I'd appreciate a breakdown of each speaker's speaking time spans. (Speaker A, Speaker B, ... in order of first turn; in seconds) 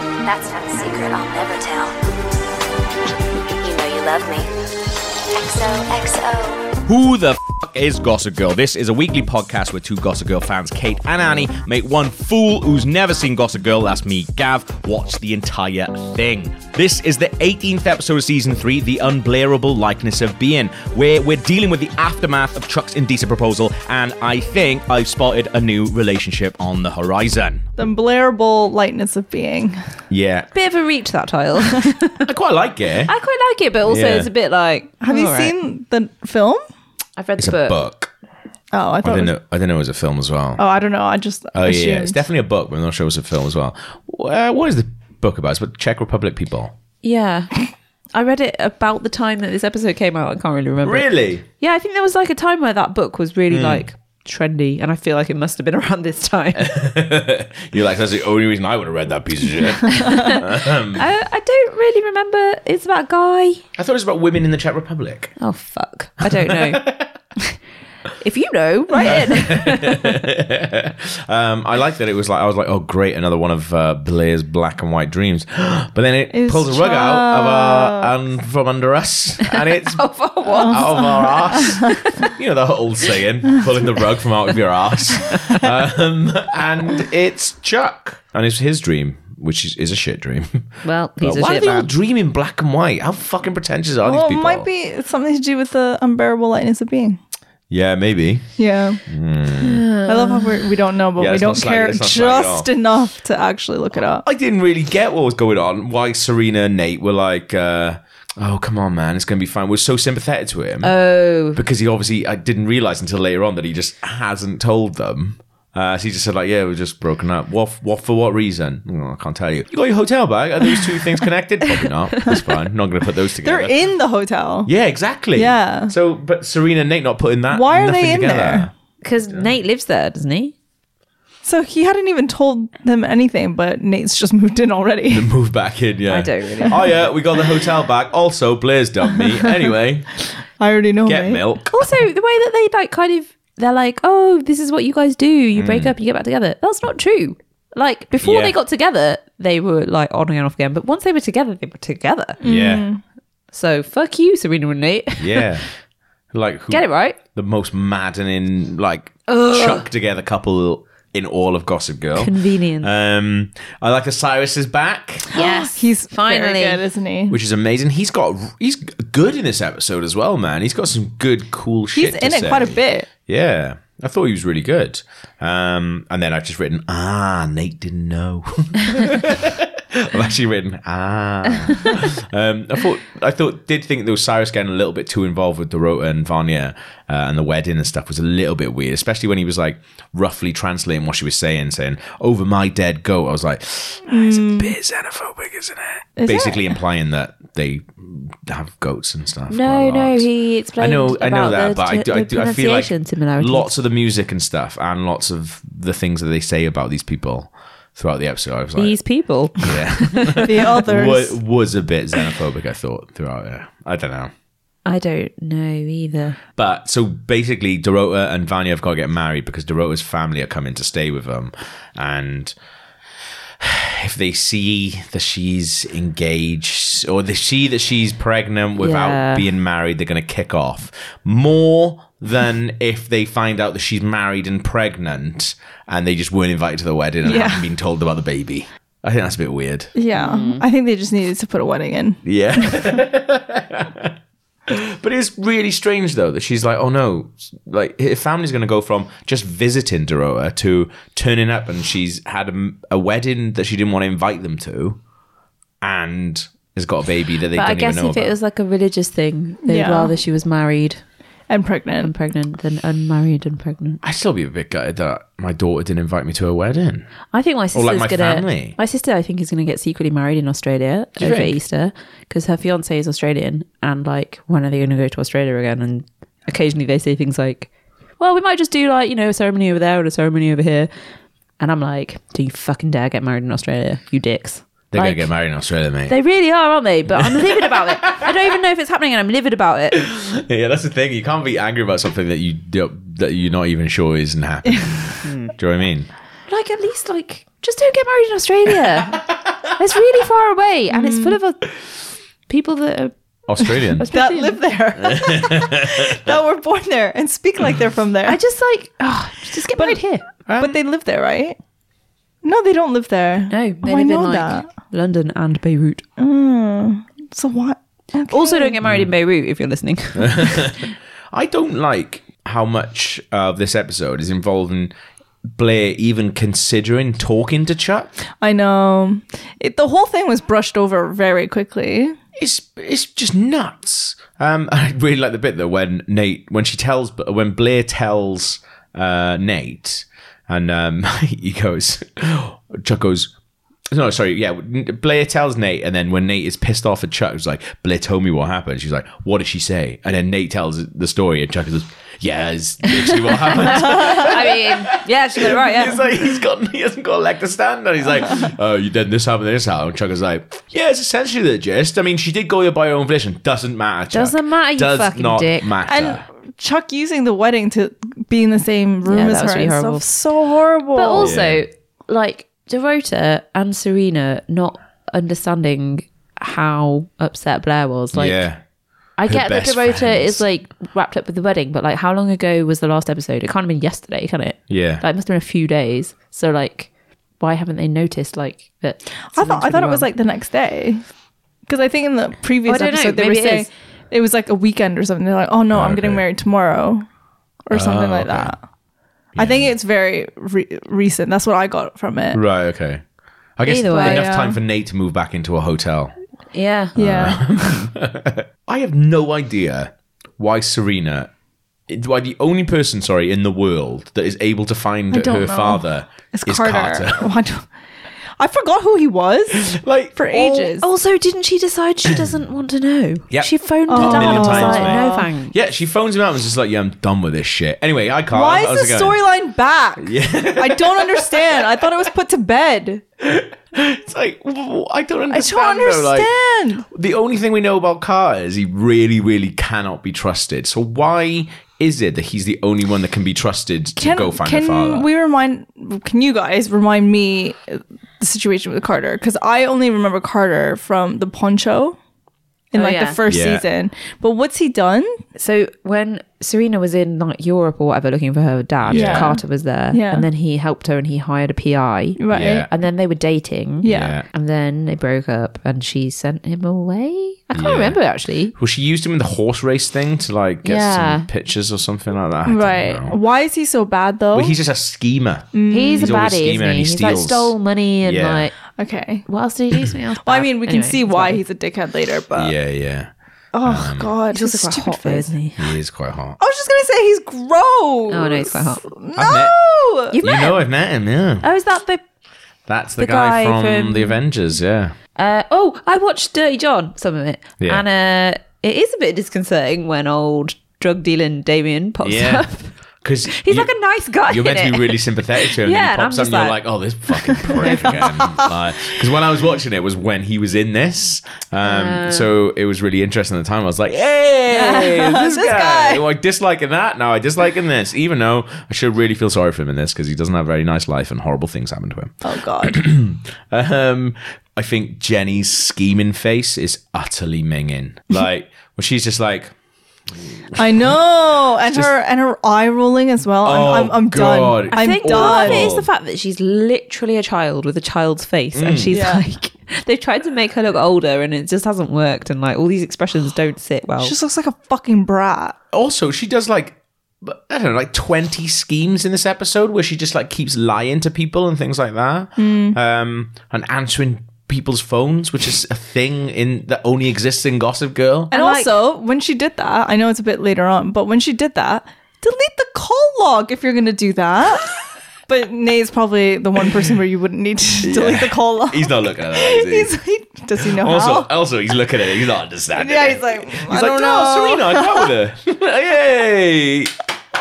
Speaker A: 0.2-2.0, 3.5-4.5, 5.4-6.8
Speaker B: 6.9-27.6, 30.1-30.5, 32.2-33.1, 33.9-34.3, 37.4-38.1, 39.0-40.6, 41.5-46.7, 50.8-51.5, 53.5-53.9, 56.5-61.0, 63.8-65.3, 66.2-67.1, 69.0-90.7, 91.2-94.7, 97.7-98.5, 99.1-99.8, 101.2-102.7, 104.0-110.9, 111.5-123.7, 124.7-128.7, 129.2-129.5, 135.1-140.1, 141.1-141.9, 145.6-145.9, 148.2-148.6, 152.4-152.9, 155.2-155.7, 156.3-165.3, 167.3-200.3, 200.8-209.0, 209.6-214.3, 216.6-222.5, 223.6-239.9, 242.2-244.1, 244.7-255.0, 255.8-258.3, 264.0-267.1, 267.7-268.8, 271.2-271.6, 284.9-286.2, 287.2-288.3, 289.9-296.1, 299.1-299.6, 303.5-304.1, 305.1-306.3, 310.5-310.8, 320.2-324.9, 325.5-328.1, 332.4-343.3, 343.9-366.2, 371.2-371.6, 378.1-378.6, 379.3-380.4, 384.7-385.0, 395.7-396.2, 397.7-398.5, 399.4-399.7, 402.3-403.0, 403.6-406.1, 407.0-411.3, 411.9-417.3, 419.6-420.1, 423.3-429.2, 430.0-431.9, 433.2-436.3, 436.9-445.1, 453.3-453.7, 458.8-459.3, 462.3-462.7, 463.9-464.3, 467.5-468.0, 468.6-473.2, 474.3-478.5, 482.4-483.1, 483.6-484.1, 485.6-486.4, 489.2-489.6, 490.2-491.5, 492.7-494.9, 502.0-502.5, 503.0-503.7, 504.2-529.5, 530.1-531.0, 533.4-535.9, 538.5-539.0, 545.7-558.3, 567.8-569.9, 570.6-577.0
Speaker C: 27.8-29.8, 35.0-36.6, 38.7-39.3, 40.6-42.2, 76.3-78.1, 80.6-81.0, 81.5-81.9, 94.0-97.2, 98.6-99.0, 100.1-104.2, 123.4-124.7, 125.3-125.9, 127.5-128.7, 131.4-135.3, 140.6-141.4, 152.4-153.0, 165.3-167.4, 171.9-173.1, 194.1-194.8, 196.2-196.8, 210.4-211.4, 237.2-237.7, 239.9-242.8, 259.7-260.1, 261.5-262.1, 294.7-295.0, 300.9-301.4, 304.1-308.4, 309.7-310.0, 310.6-311.6, 312.4-314.7, 316.2-318.8, 328.4-332.2, 365.9-371.3, 389.3-391.0, 391.7-397.0, 397.7-398.6, 399.4-402.4, 403.9-404.6, 407.0-407.9, 415.1-417.7, 418.4-420.9, 423.9-425.3, 428.3-433.0, 435.3-436.9, 444.0-452.0, 452.7-455.2, 458.9-460.3, 462.2-462.7, 463.8-464.2, 472.4-474.6, 475.5-476.2, 478.8-479.3, 480.2-482.6, 483.5-485.3, 486.4-490.2, 507.4-508.9, 514.5-516.0, 522.2-522.8, 530.6-535.7, 538.9-539.2, 544.0-545.5, 552.4-552.8, 558.3-571.3, 572.7-575.1
Speaker D: 30.5-32.2, 33.1-35.5, 37.2-37.8, 47.0-47.6, 48.1-56.7, 59.9-63.6, 65.4-66.8, 68.2-70.2, 79.5-82.3, 85.2-85.6, 90.8-91.9, 99.6-100.6, 110.8-111.6, 129.0-130.5, 136.1-136.8, 141.7-152.4, 153.5-155.6, 156.7-157.2, 159.3-159.8, 162.2-162.9, 165.3-166.8, 199.5-203.7, 208.8-210.6, 214.9-216.4, 228.8-229.4, 240.2-240.6, 257.5-261.0, 262.0-264.0, 267.3-277.7, 278.2-280.9, 281.6-285.3, 286.1-290.0, 295.2-295.5, 296.5-301.6, 302.5-304.6, 308.3-310.2, 313.5-316.0, 318.3-320.8, 353.0-356.1, 364.1-365.7, 369.1-370.0, 371.0-378.4, 379.2-386.9, 387.4-390.1, 392.7-393.7, 403.6-404.3, 406.5-407.0, 420.3-425.5, 452.8-453.2, 455.4-468.6, 470.6-471.3, 475.7-478.6, 479.3-481.4, 484.3-485.6, 488.1-488.8, 490.1-490.6, 491.4-492.0, 493.0-494.2, 495.2-502.7, 503.3-506.6, 511.6-512.2, 534.7-544.1, 558.3-558.8